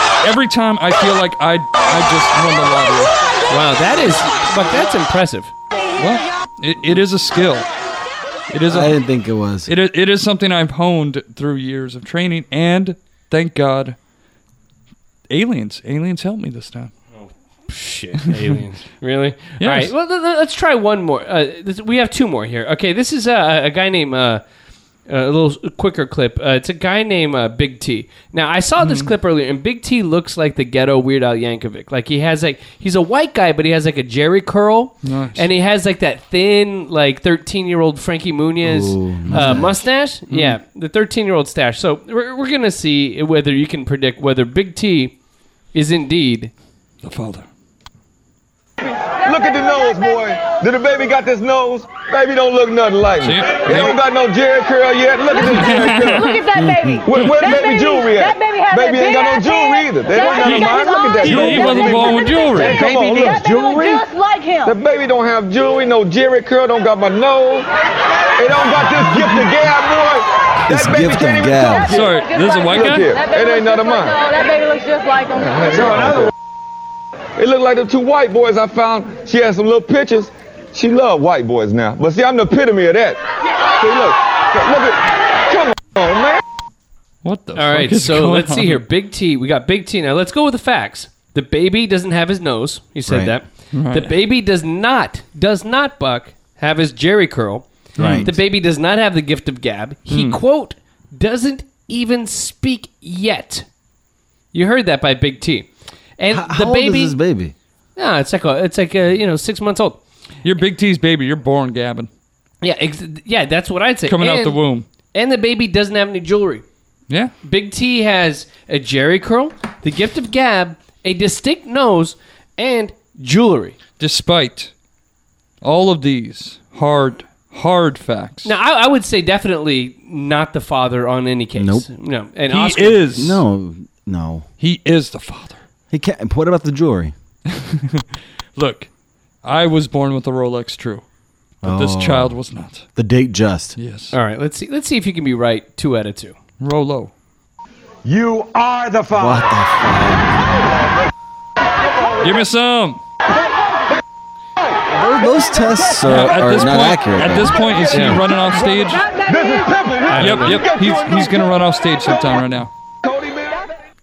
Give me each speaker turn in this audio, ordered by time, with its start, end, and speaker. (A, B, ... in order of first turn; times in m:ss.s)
0:00.2-0:03.1 A
0:03.5-0:05.5 B
0:06.0-0:07.7 A
0:08.5-0:09.0 A
0:08.7-0:09.7 C
0:09.7-0:14.0 A
0:15.3-0:16.9 A
0:17.7-0:24.4 B
0:18.2-0:18.6 A
0:19.6-0:19.9 A
0:25.1-0:45.2 B
0:28.8-0:29.1 A
0:35.0-0:35.4 A
0:38.6-0:39.9 C
0:39.3-0:39.6 A
0:40.3-0:40.6 A
0:45.7-0:46.5 B
0:47.0-0:47.5 A
0:48.8-0:56.4 D
0:53.2-0:53.9 A
0:55.4-0:56.3 A
0:55.4-1:04.8 E
0:57.0-1:04.0 D
1:00.4-1:00.7 A
1:01.2-1:02.8 A
1:02.8-1:03.8 F
1:04.6-1:07.7 D
1:08.4-1:14.2 D
1:10.7-1:11.9 C
1:11.9-1:13.1 A
1:12.4-1:15.8 E
1:15.6-1:16.3 D
1:15.8-1:16.2 A
1:17.4-1:23.2 D
1:23.8-1:26.4 D
1:27.2-1:28.8 A
1:27.6-1:43.6 B
1:33.1-1:33.3 C
1:33.7-1:34.1 A
1:38.0-1:38.3 C
1:38.0-1:38.3 A
1:40.1-1:40.4 A
1:44.5-1:47.2 B
1:46.3-1:47.6 C
1:48.0-1:50.0 B
1:50.4-1:52.1 A
1:52.6-1:54.6 B
1:54.1-1:54.9 A
1:55.1-1:56.6 B
1:57.4-2:03.8 B
2:04.0-2:04.7 A
2:05.6-2:08.6 A
2:08.4-2:13.1 B
2:11.6-2:11.9 C
2:12.5-2:13.4 A
2:13.2-2:14.5 C
2:14.6-2:15.6 A
2:15.9-2:17.1 C
2:17.5-2:18.0 A
2:18.6-2:18.9 A
2:19.4-2:21.0 A
2:21.6-2:22.4 C
2:21.6-2:22.9 A
2:23.0-2:23.8 C
2:23.8-2:24.2 A
2:24.1-2:26.4 B
2:26.6-2:27.1 A
2:28.0-2:29.5 F
2:29.2-2:30.4 C
2:32.2-2:33.0 A
2:34.9-2:37.7 C
2:36.0-2:39.0 A
2:37.9-2:38.2 B
2:39.3-2:41.6 D
2:40.1-2:40.6 B
2:40.2-2:42.7 A
2:43.0-2:43.7 D